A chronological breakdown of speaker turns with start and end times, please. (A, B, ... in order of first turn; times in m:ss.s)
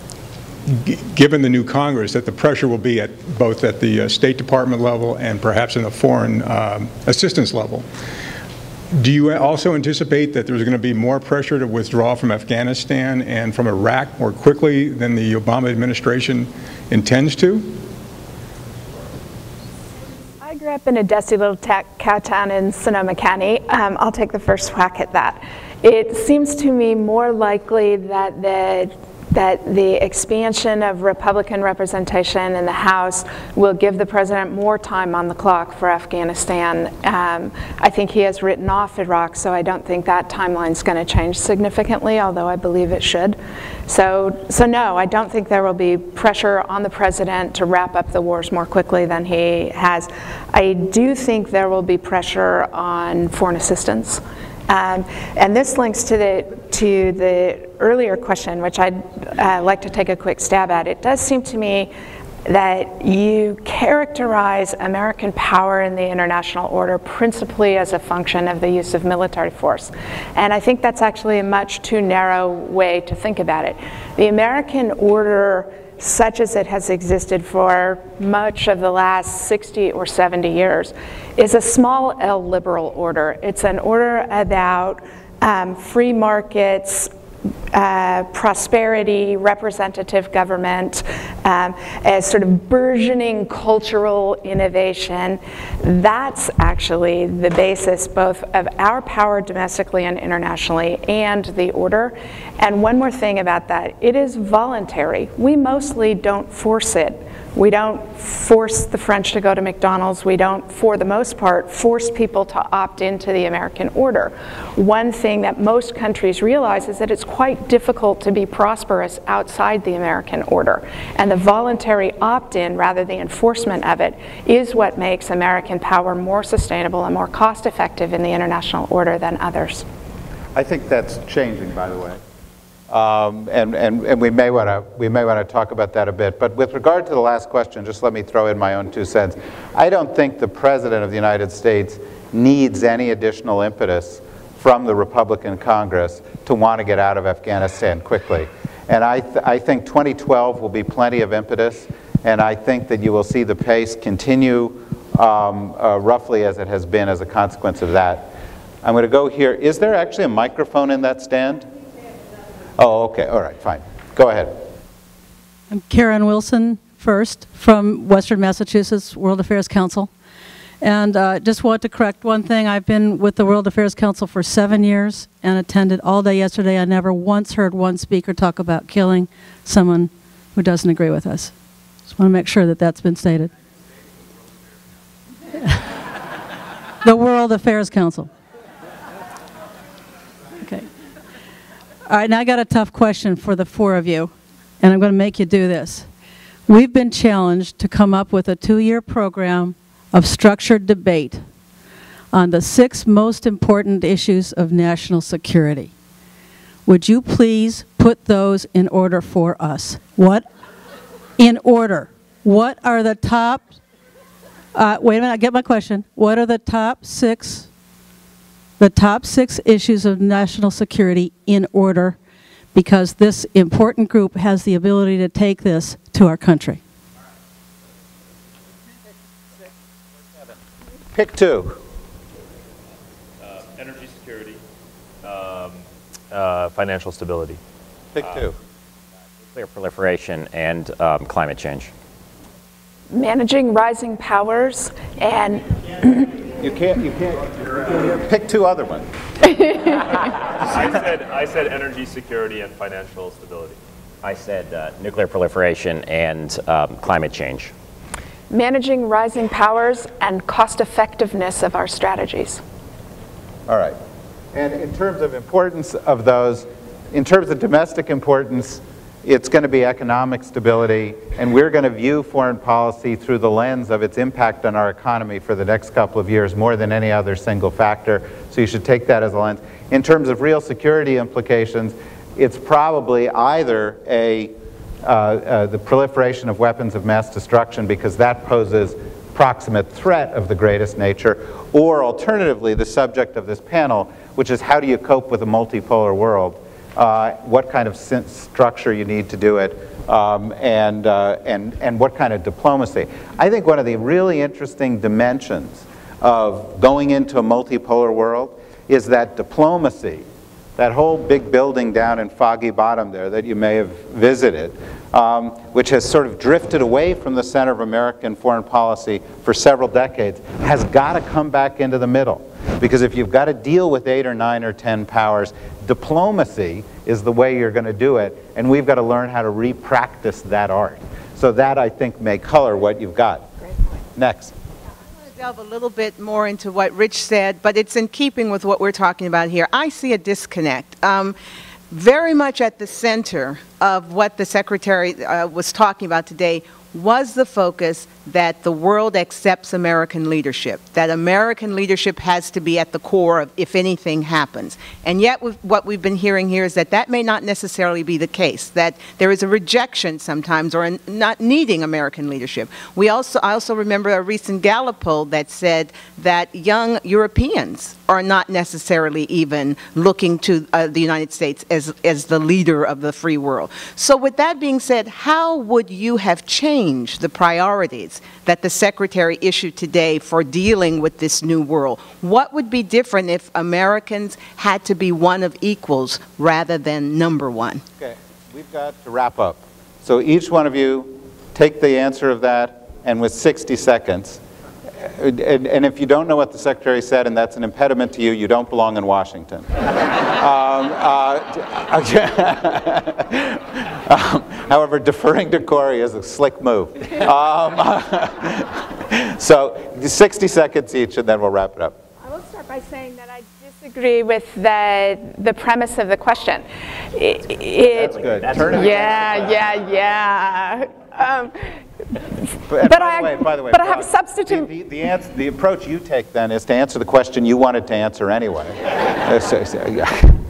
0:00.7-0:07.9 A
0:08.9-0:17.8 A
0:20.4-1:01.9 B
1:02.4-1:27.1 B
1:27.7-2:09.8 B
2:10.5-2:12.2 C
2:12.9-2:41.7 C
2:42.8-2:44.6 C
2:45.7-2:50.1 D
2:50.8-3:01.5 D
3:02.1-3:03.5 D
3:07.0-3:08.3 D
3:10.6-3:10.9 D
3:12.1-3:16.1 D
3:16.7-3:21.4 D
3:22.3-3:25.9 D
3:26.8-3:30.4 D
3:31.4-3:33.8 D
3:34.7-3:37.7 D
3:38.8-3:42.2 D
3:42.7-3:46.8 D
3:51.1-3:51.8 C
3:53.4-3:54.6 E
3:55.2-3:57.6 E
3:58.1-3:58.6 C
3:59.5-4:01.9 F
4:03.1-4:06.4 B
4:06.6-4:09.1 C
4:09.5-4:10.0 B
4:10.5-4:13.8 E
4:14.2-4:17.7 F
4:18.5-4:22.6 B
4:23.7-4:24.0 C
4:24.5-5:10.2 C
5:10.8-5:33.5 C
5:34.1-5:34.5 C
5:35.2-5:41.4 G
5:41.9-6:27.8 G
6:28.0-6:34.4 C
6:35.0-6:52.0 C
6:52.2-7:02.2 B
6:57.9-6:59.7 C
6:58.4-6:59.1 F
7:02.7-7:10.4 C
7:02.8-7:04.7 B